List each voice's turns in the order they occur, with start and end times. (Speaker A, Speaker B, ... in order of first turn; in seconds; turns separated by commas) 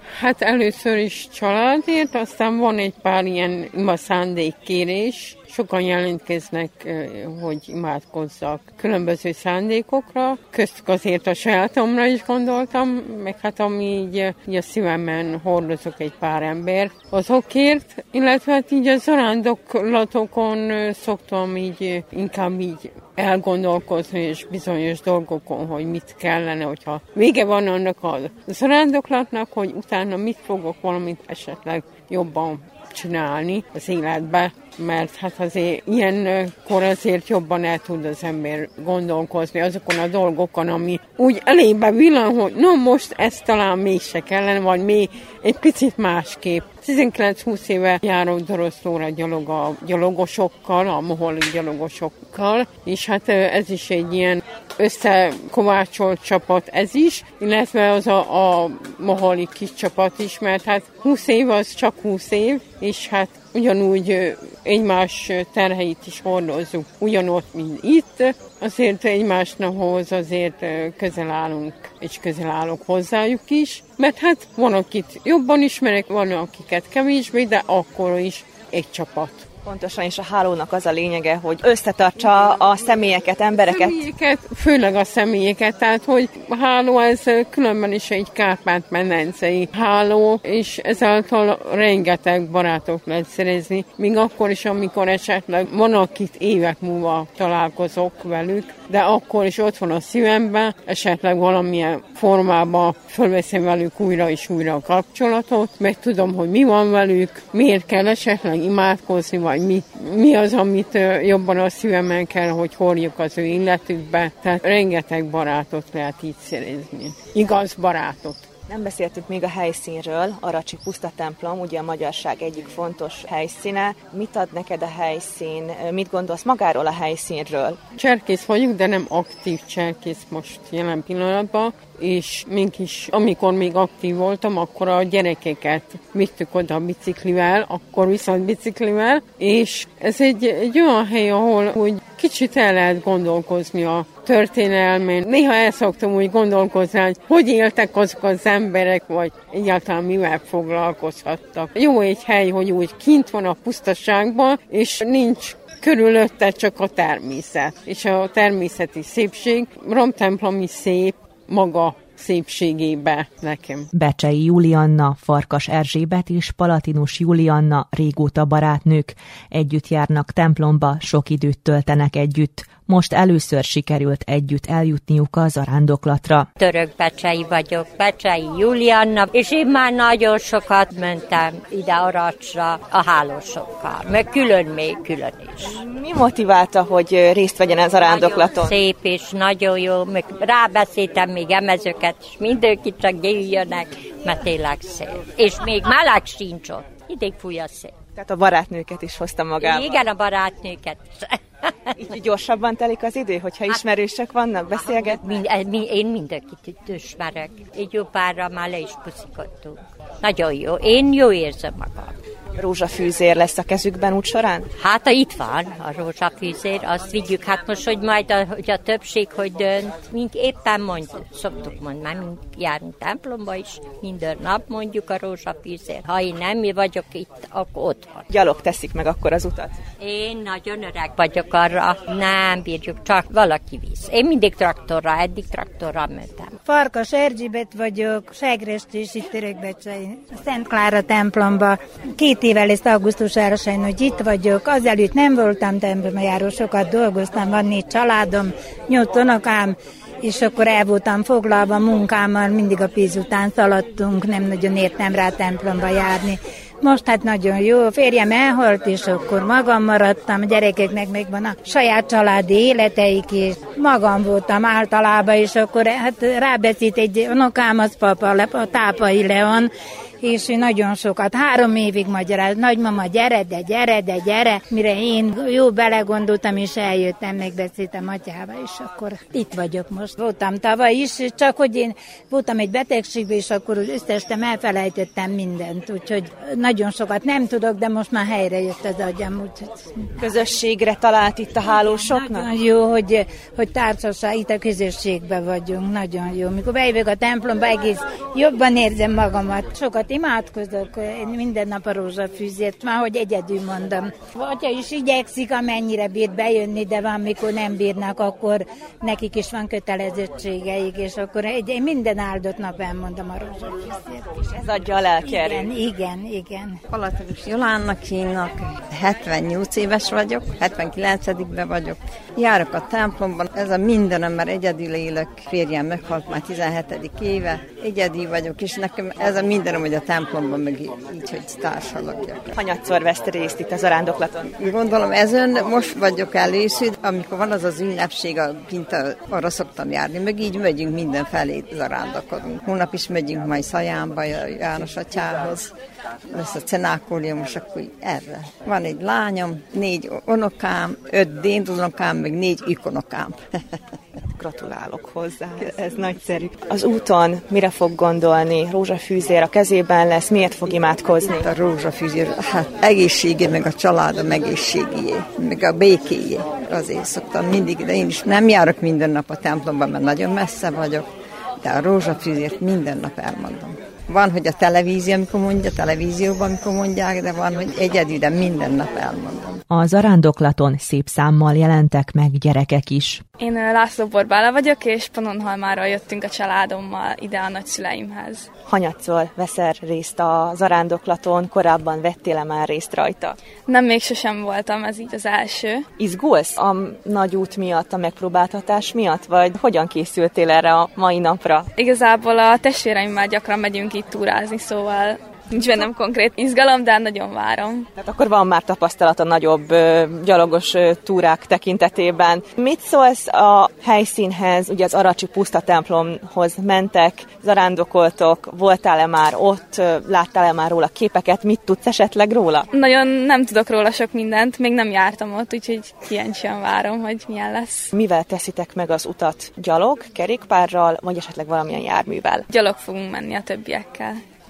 Speaker A: 0.1-79.4, Speaker B: 79.6-84.0, Speaker A: 83.7-118.4, Speaker B: 118.7-127.8, Speaker A: 128.0-163.9, Speaker C: 163.9-176.5, Speaker D: 176.6-185.8, Speaker B: 185.8-188.7, Speaker D: 187.9-197.9, Speaker B: 198.2-199.9, Speaker D: 199.6-201.4, Speaker B: 202.0-205.2, Speaker D: 204.7-212.2, Speaker B: 212.6-214.7, Speaker D: 214.8-228.3, Speaker B: 228.3-229.8, Speaker D: 230.0-236.6, Speaker E: 236.7-289.9, Speaker B: 290.2-292.5, Speaker E: 291.9-314.4, Speaker B: 314.5-315.7, Speaker E: 315.2-316.8, Speaker F: 316.9-332.5, Speaker B: 332.6-334.6, Speaker F: 334.6-345.7, Speaker F: 346.3-353.4, Speaker B: 354.4-361.5, Speaker F: 361.4-371.1, Speaker F: 371.6-379.6, Speaker C: 379.7-383.2, Speaker G: 383.4-388.5, Speaker B: 388.7-393.4, Speaker G: 393.7-395.9, Speaker B: 396.0-401.7, Speaker G: 401.8-407.9, Speaker B: 408.0-422.7, Speaker G: 422.7-427.9, Speaker B: 427.9-432.5, Speaker G: 432.5-434.2